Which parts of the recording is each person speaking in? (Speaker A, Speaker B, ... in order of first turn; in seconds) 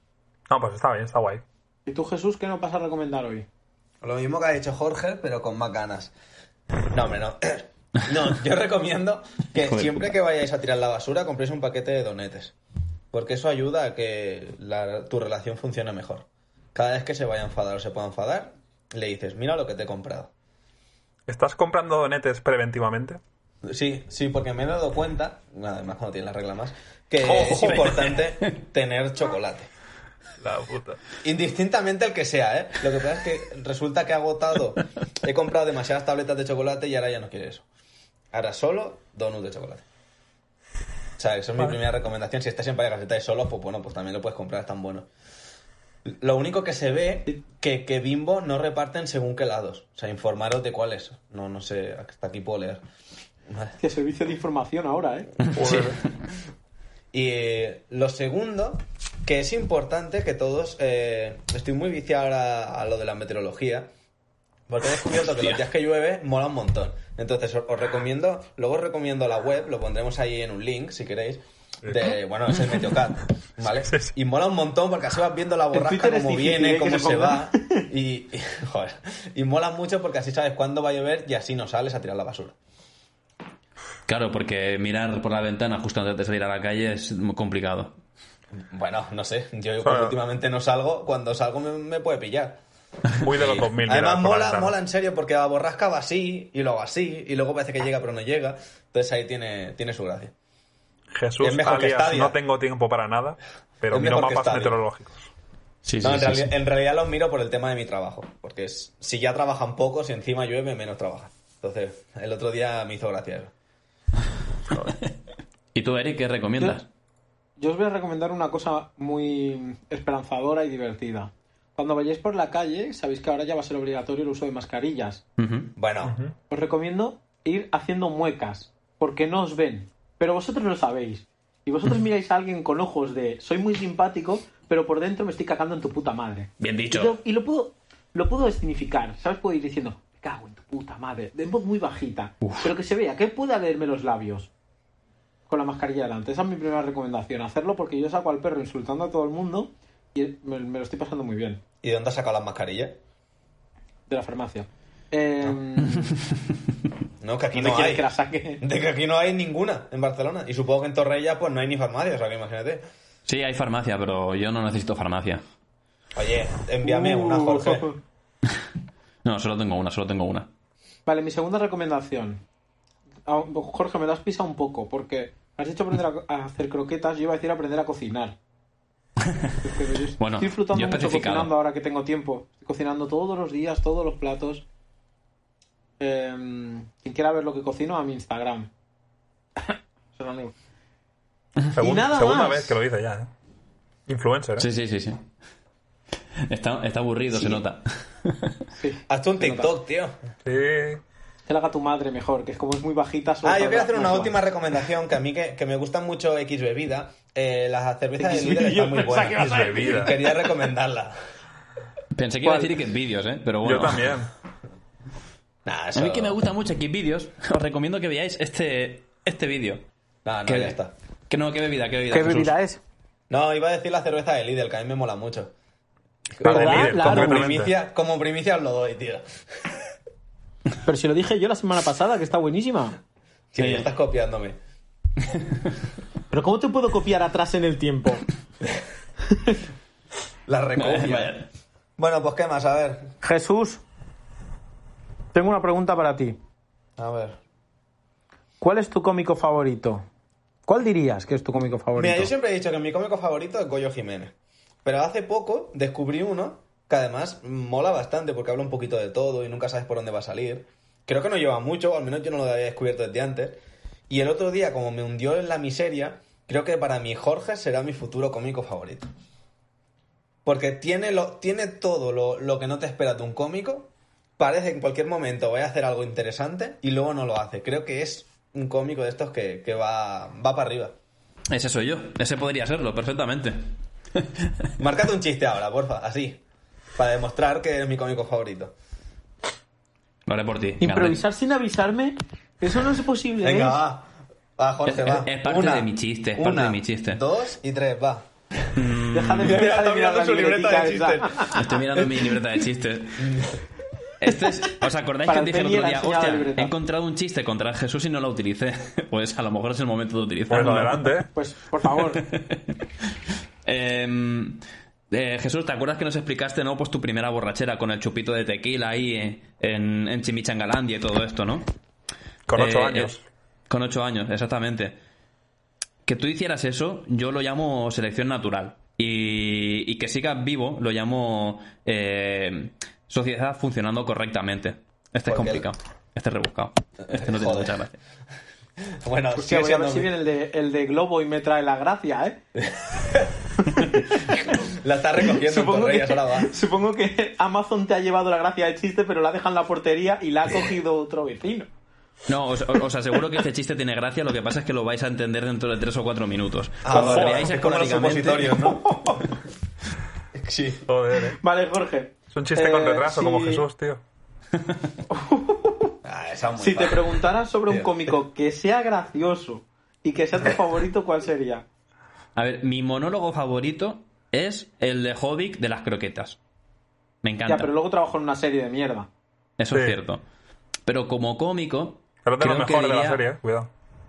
Speaker A: 0.5-1.4, 21.3-23.2, 27.3-27.9, 30.4-31.0, 55.6-56.0, 71.8-72.2, 89.8-90.1, 93.2-94.7, 101.1-105.3, 126.0-126.3, 191.7-193.3, 194.1-194.7, 200.4-201.0, 209.4-210.1, 213.6-214.3, 226.4-227.7, 310.5-311.3, 322.5-323.2, 356.9-357.5, 360.9-361.4, 362.3-364.0, 379.7-380.0, 382.2-383.7
Speaker B: 1.9-3.5, 53.8-55.4, 75.7-77.9, 117.6-125.2, 126.5-144.5, 145.5-151.6, 154.1-156.2, 157.5-158.6, 166.8-168.0, 171.1-172.4, 173.3-178.4, 179.6-184.6, 186.0-188.7, 189.6-190.6, 191.8-192.8, 198.8-199.7, 201.5-204.4, 208.2-210.5, 212.4-212.8, 222.1-222.8, 226.4-227.5, 230.8-233.0, 236.3-238.2, 239.3-239.6, 243.2-243.8, 245.3-246.4, 248.6-250.0, 250.7-252.3, 290.8-293.8, 299.1-301.6, 305.3-306.7, 311.3-312.3, 339.4-342.4, 343.7-344.4, 345.2-351.7, 358.7-359.2, 361.4-363.6, 365.1-365.9, 366.6-371.6, 377.5-379.1
Speaker C: 4.0-6.1, 6.9-12.5, 13.1-20.3, 23.6-29.7, 31.2-37.6, 38.3-39.8, 41.2-45.1, 46.1-52.8, 53.5-53.7, 57.1-63.9, 64.7-82.5, 88.7-92.6, 93.3-100.3, 101.4-102.4, 103.9-104.8, 106.0-113.5, 125.8-126.2, 151.8-153.0, 157.2-158.1, 158.6-162.8, 166.2-167.9, 199.1-200.1, 203.4-211.2, 215.7-216.4, 220.2-220.9, 223.3-225.5, 226.4-229.7, 233.5-234.6, 240.5-241.4, 242.0-243.1, 247.0-247.4, 252.0-254.3, 254.8-269.1, 270.4-280.9, 284.8-286.4, 287.0-288.7, 293.4-298.2, 299.4-302.3, 303.2-303.6, 335.3-335.7, 337.1-337.8, 339.0-340.1, 342.6-343.3, 344.5-346.5, 356.8-359.2, 360.3-360.9, 366.0-368.1
Speaker D: 9.6-10.1, 27.3-28.0, 55.5-56.0, 84.1-88.0, 105.8-106.5, 115.8-116.9, 125.4-125.7, 136.6-137.2, 142.4-142.7, 163.3-165.4, 169.2-170.5, 179.2-179.6, 180.2-181.5, 194.6-195.3, 196.5-198.6, 212.2-214.2, 216.0-219.8, 220.5-222.5, 233.6-233.9, 235.3-235.7, 240.8-241.5, 281.5-284.5, 290.3-291.2, 294.9-297.2, 298.8-299.6, 301.5-303.5, 304.2-311.2, 312.0-312.8, 313.6-321.7, 322.6-323.2, 323.7-325.0, 326.1-338.0, 352.3-358.7, 372.4-376.4, 377.2-377.7, 379.6-380.2, 380.9-383.3